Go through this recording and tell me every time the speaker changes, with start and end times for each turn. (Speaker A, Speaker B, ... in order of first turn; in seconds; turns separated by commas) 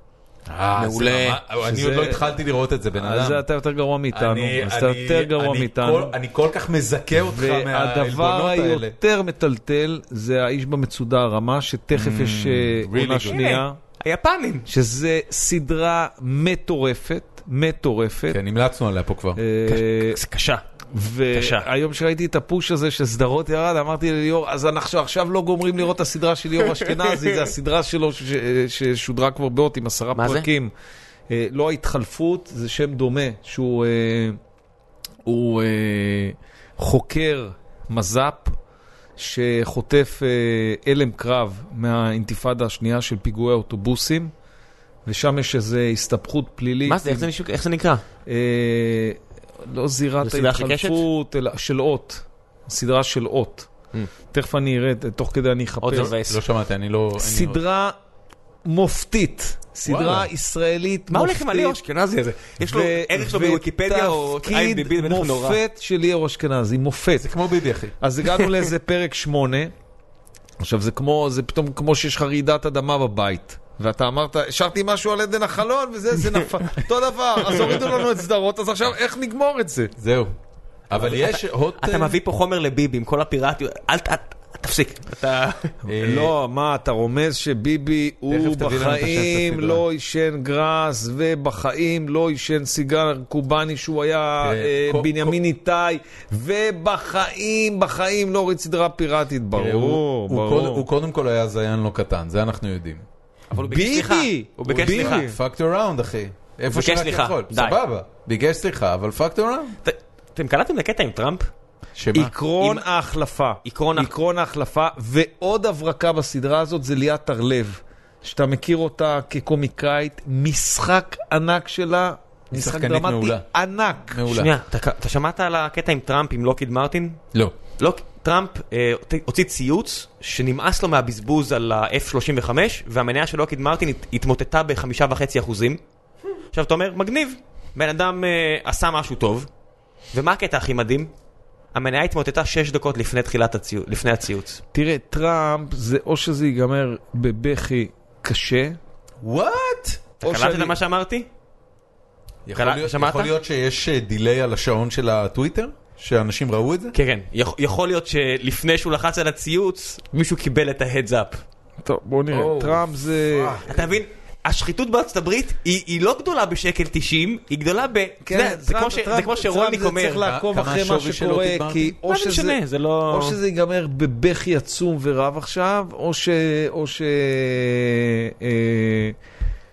Speaker A: 0.5-3.4, Speaker B: 0.8-1.4, Speaker C: 1.6-2.3, Speaker C: 2.9-6.1, Speaker A: 4.1-8.9, Speaker C: 7.2-13.8, Speaker A: 11.9-13.4, Speaker B: 13.2-14.7, Speaker C: 14.7-18.4, Speaker A: 18.3-19.4, Speaker C: 19.4-20.2, Speaker B: 19.6-20.6, Speaker C: 20.9-30.7, Speaker B: 21.3-21.6, Speaker B: 30.1-30.5, Speaker C: 31.3-34.4, Speaker C: 35.2-38.6, Speaker C: 39.2-44.3, Speaker C: 45.0-47.3, Speaker B: 46.9-48.0, Speaker C: 48.2-53.7, Speaker B: 50.2-51.0, Speaker C: 54.2-56.1, Speaker B: 55.8-56.4, Speaker A: 56.0-57.6, Speaker C: 57.2-57.9, Speaker C: 58.6-61.8, Speaker A: 59.8-60.3, Speaker B: 61.1-65.6, Speaker C: 62.6-67.3, Speaker A: 67.2-68.0, Speaker C: 68.0-69.7, Speaker C: 70.6-79.9, Speaker A: 80.0-80.3, Speaker A: 80.9-82.2, Speaker B: 80.9-85.7, Speaker A: 85.8-86.3, Speaker C: 85.8-100.8, Speaker A: 88.3-89.8, Speaker A: 94.4-95.3, Speaker A: 99.5-103.0, Speaker B: 103.5-105.3, Speaker C: 103.5-105.4, Speaker A: 104.7-109.8, Speaker B: 106.7-107.8, Speaker B: 109.8-111.5, Speaker A: 112.0-112.3, Speaker C: 112.1-124.2, Speaker B: 112.6-112.8, Speaker B: 113.6-114.1, Speaker A: 122.5-123.5, Speaker A: 124.1-124.5, Speaker B: 124.3-127.2, Speaker B: 127.8-135.8, Speaker B: 136.5-139.5, Speaker B: 140.1-141.1, Speaker B: 141.7-144.6, Speaker C: 144.7-148.8, Speaker A: 149.2-150.1, Speaker B: 150.2-151.3, Speaker C: 150.2-150.7, Speaker A: 152.4-156.9, Speaker B: 152.5-153.3, Speaker B: 156.9-161.4, Speaker C: 161.8-163.6, Speaker A: 162.3-163.8, Speaker B: 163.6-170.3, Speaker C: 168.2-179.2, Speaker A: 170.2-171.9, Speaker B: 172.1-173.4